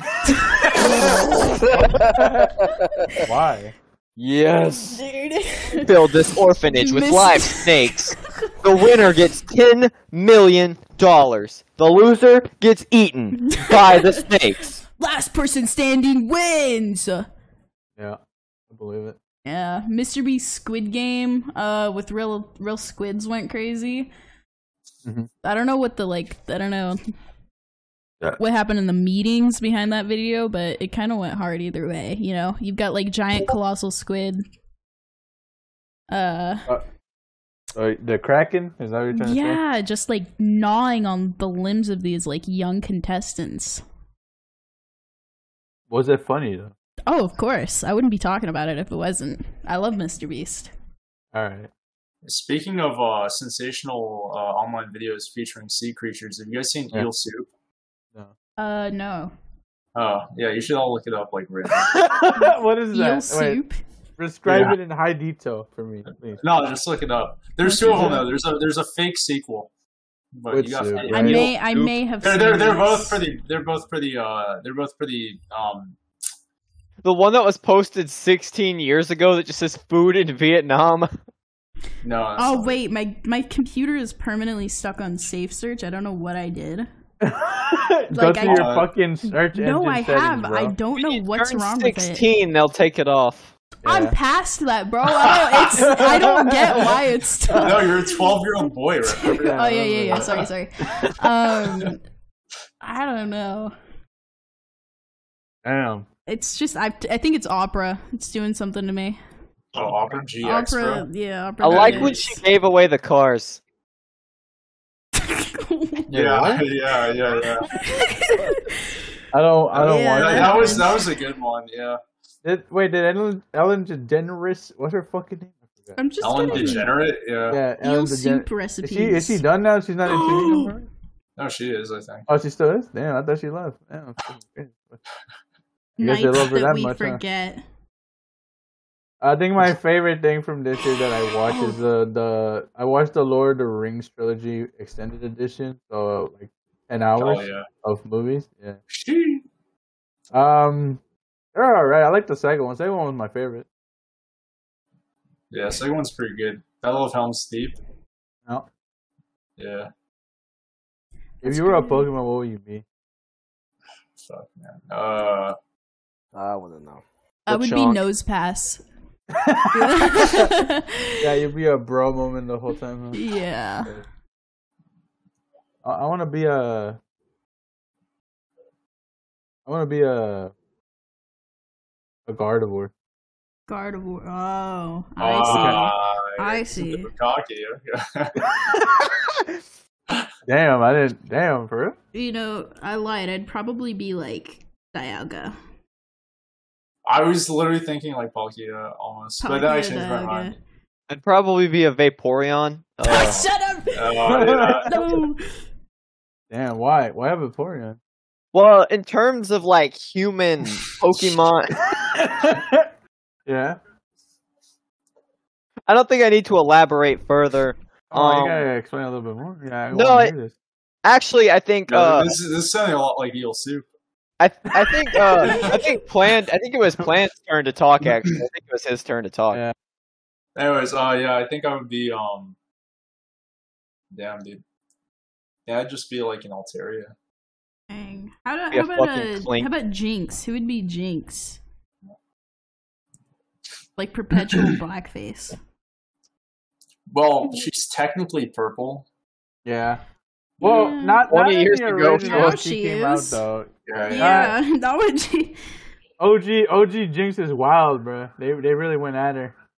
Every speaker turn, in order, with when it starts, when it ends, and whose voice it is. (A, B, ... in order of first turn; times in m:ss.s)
0:00.4-0:00.7 A
0:00.5-0:01.1 B
0:00.8-0:03.2 C
0:02.2-0:02.6 B
0:03.2-0:03.7 B
0:04.2-0:05.0 C
0:04.9-0:08.9 A
0:05.7-0:14.8 D
0:13.3-0:14.3 A
0:14.9-0:17.3 A
0:18.7-0:19.2 B
0:19.4-0:24.1 A
0:25.4-0:27.0 A
0:28.4-0:34.4 A
0:36.1-0:36.7 A
0:37.8-0:39.6 B
0:39.1-0:43.8 A
0:45.9-0:46.7 B
0:47.1-0:50.7 A
0:51.3-0:51.7 B
0:52.2-0:57.5 E
0:58.6-0:59.3 A
1:00.0-1:02.0 E
1:01.8-1:03.6 B
1:02.4-1:03.8 A
1:04.2-1:06.4 B
1:04.5-1:04.8 E
1:06.4-1:09.7 E
1:07.6-1:08.3 A
1:10.4-1:11.6 E
1:10.5-1:11.5 B
1:11.1-1:13.2 A
1:12.2-1:16.0 E
1:17.0-1:21.1 D
1:22.0-1:22.8 E
1:22.4-1:26.9 A
1:27.2-1:30.8 B
1:28.1-1:28.8 A
1:28.4-1:28.9 E
1:29.3-1:32.3 A
1:31.0-1:33.5 D
1:33.8-1:34.2 B
1:33.8-1:38.4 A
1:35.2-1:36.0 E
1:35.7-1:37.8 B
1:37.6-1:39.6 E
1:39.1-1:42.0 A
1:39.3-1:41.2 B
1:42.8-1:43.7 A
1:45.6-1:46.1 B
1:46.3-1:49.2 A
1:49.8-1:51.1 E
1:50.4-1:52.4 A
1:51.6-1:53.6 D
1:51.7-1:52.2 E
1:55.2-1:56.1 A
1:56.1-1:56.7 B
1:56.1-1:57.7 E
1:57.7-1:59.0 A
1:59.3-2:00.9 B
1:59.8-2:02.0 E
1:59.8-2:01.1 A
2:02.4-2:06.8 B
2:06.0-2:07.1 A
2:06.2-2:07.6 E
2:07.5-2:10.9 B
2:07.8-2:09.4 A
2:10.0-2:10.8 A
2:11.4-2:12.3 E
2:12.3-2:15.0 B
2:16.0-2:17.6 A
2:16.0-2:17.2 B
2:19.2-2:28.8 B
2:21.5-2:21.8 A
2:27.2-2:27.7 E
2:28.9-2:29.4 E
2:30.3-2:31.0 B
2:31.6-2:33.7 B
2:35.5-2:37.8 E
2:39.6-2:39.9 E
2:41.4-2:42.8 B
2:41.4-2:42.1 A
2:44.2-2:45.6 E
2:46.3-2:47.0 C
2:47.5-2:48.8 A
2:47.5-2:48.0 D
2:49.3-2:50.5 B
2:49.7-2:51.3 A
2:51.2-2:53.2 B
2:53.1-2:53.9 A
2:55.8-2:57.0 B
2:59.7-3:00.5 B
3:02.3-3:02.9 B
3:03.7-3:07.1 A
3:05.2-3:08.5 E
3:05.4-3:05.9 B
3:08.4-3:09.5 B
3:10.5-3:12.0 B
3:12.1-3:15.6 A
3:17.1-3:20.5 E
3:19.4-3:20.6 A
3:21.1-3:23.4 D
3:23.0-3:25.6 A
3:23.2-3:25.0 E
3:24.3-3:25.2 B
3:26.5-3:28.0 B
3:28.5-3:31.8 D
3:31.9-3:32.9 B
3:33.5-3:33.8 B
3:35.9-3:38.6 D
3:38.1-3:40.5 B
3:39.9-3:40.3 D
3:41.0-3:42.4 D
3:41.9-3:43.9 E
3:44.4-3:49.6 D
3:44.8-3:45.7 B
3:45.4-3:45.8 E
3:50.6-3:52.6 E
3:54.1-3:54.6 E
3:55.7-3:57.1 E
3:57.9-4:01.6 A
3:58.7-3:59.7 D
4:04.0-4:05.6 A
4:07.1-4:09.1 E
4:09.6-4:10.0 B
4:10.6-4:10.9 E
4:10.6-4:14.6 B
4:10.6-4:11.2 A
4:11.3-4:12.6 D
4:12.2-4:13.4 A
4:13.9-4:14.5 E
4:14.0-4:15.6 A
4:16.2-4:19.5 B